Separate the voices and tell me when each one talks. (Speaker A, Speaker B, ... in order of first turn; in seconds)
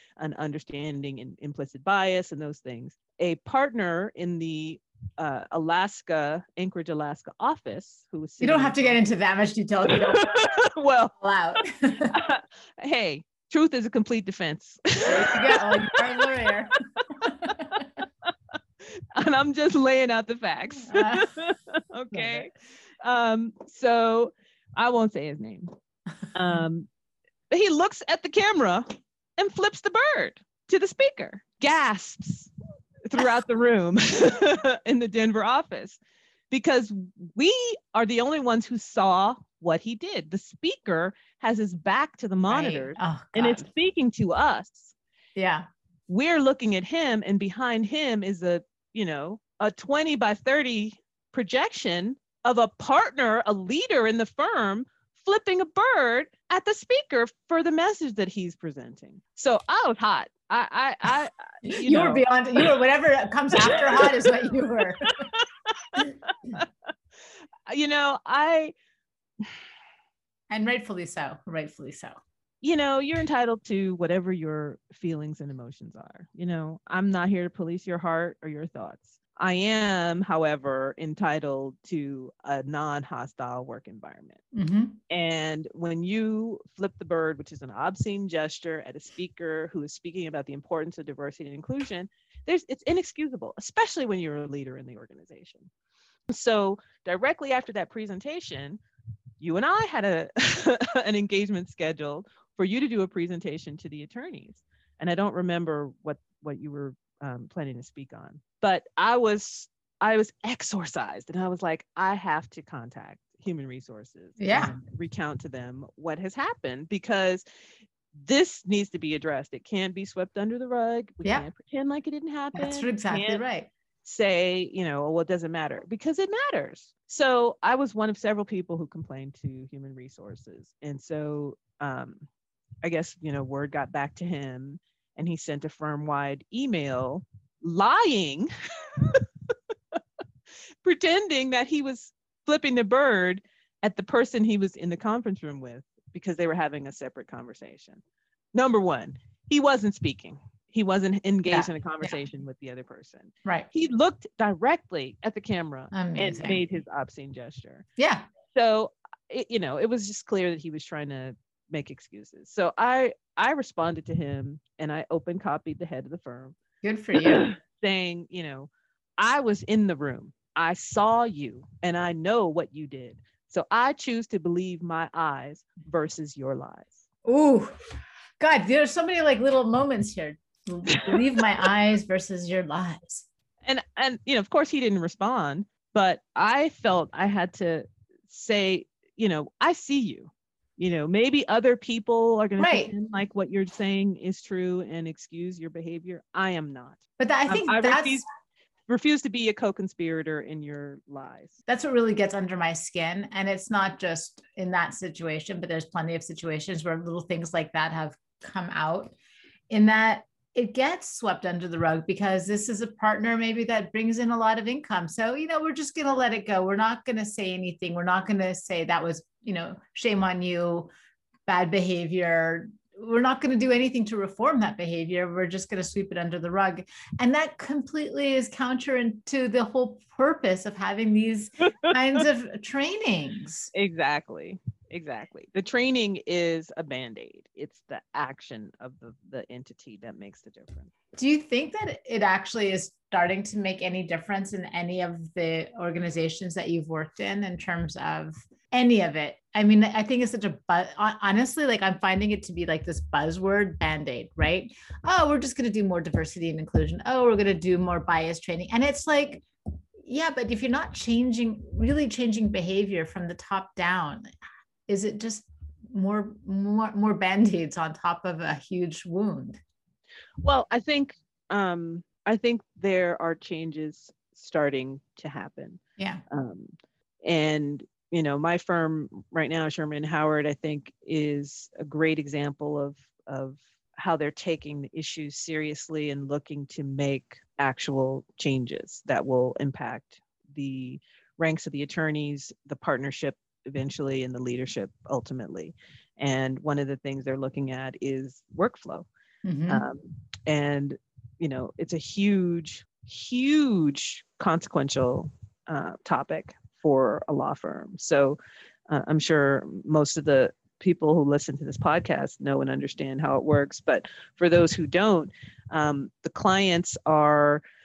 Speaker A: 0.2-8.9, 9.9-11.6, 12.1-16.2, 17.0-25.7, 26.3-26.9, 27.5-28.9, 29.4-32.5, 33.0-44.9, 46.1-62.6, 63.6-64.3, 65.0-66.7, 67.7-68.7, 72.6-84.4, 85.1-95.7, 96.3-98.8, 99.4-117.4, 118.1-123.4, 124.0-132.2, 132.8-139.2, 140.8-148.0, 148.5-157.8, 158.5-166.6, 167.2-177.0, 183.6-198.2, 198.9-201.6, 231.8-232.2, 233.7-240.9, 270.4-276.7, 277.2-299.1, 299.7-317.6
Speaker B: 8.4-10.3, 11.2-12.2, 15.1-17.9, 20.9-21.3, 22.1-22.5, 42.5-43.7, 45.4-45.7, 61.6-65.2, 70.5-72.2, 84.5-85.0, 114.4-114.8, 122.5-123.7, 151.5-152.1, 155.9-156.6, 158.0-158.2, 166.8-167.5, 177.2-177.7, 178.4-183.3, 192.6-192.9, 197.2-198.2, 201.7-209.2, 209.7-220.9, 221.5-233.7, 241.2-259.4, 260.0-264.3, 264.9-269.6, 299.4-299.9